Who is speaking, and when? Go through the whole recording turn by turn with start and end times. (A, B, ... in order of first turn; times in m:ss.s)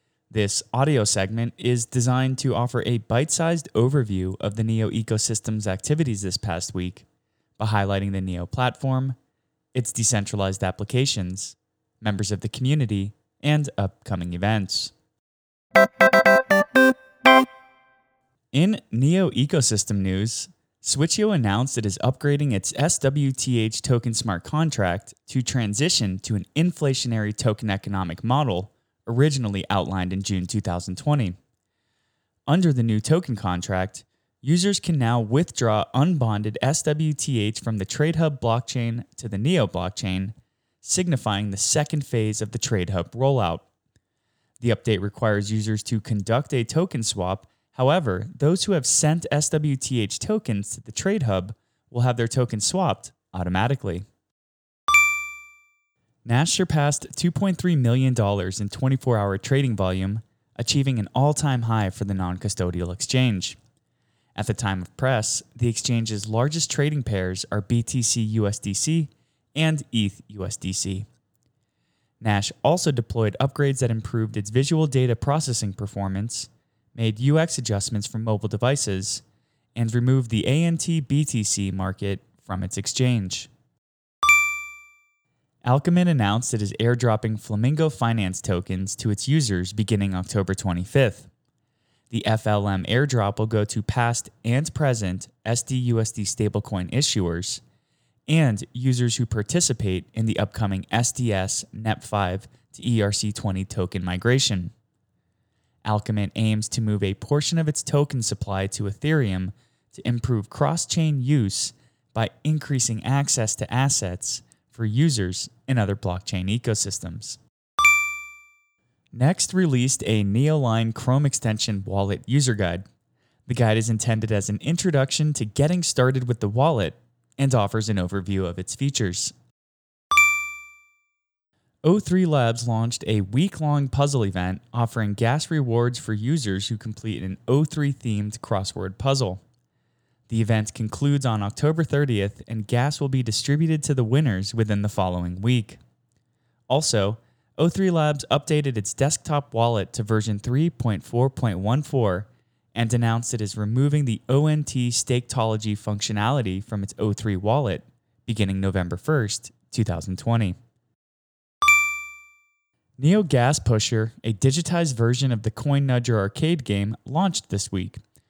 0:00.3-0:07.0 A
0:07.6-0:09.2 A
0:09.7-0:14.9 A
0:18.5-0:31.4 A
0:32.5-0:43.7 A
0:44.6-0:54.1 A
0:56.2-1:03.6 A
1:04.3-1:11.1 A
1:12.2-1:19.2 A
1:19.7-1:23.5 A
1:25.6-1:31.3 A
1:32.1-1:37.6 A
1:38.3-1:44.7 A
1:45.8-1:57.4 A
1:59.1-2:02.8 A
2:03.5-2:09.3 A
2:11.8-2:19.4 A
2:20.3-2:25.8 A
2:26.7-2:40.6 A
2:43.0-2:48.0 A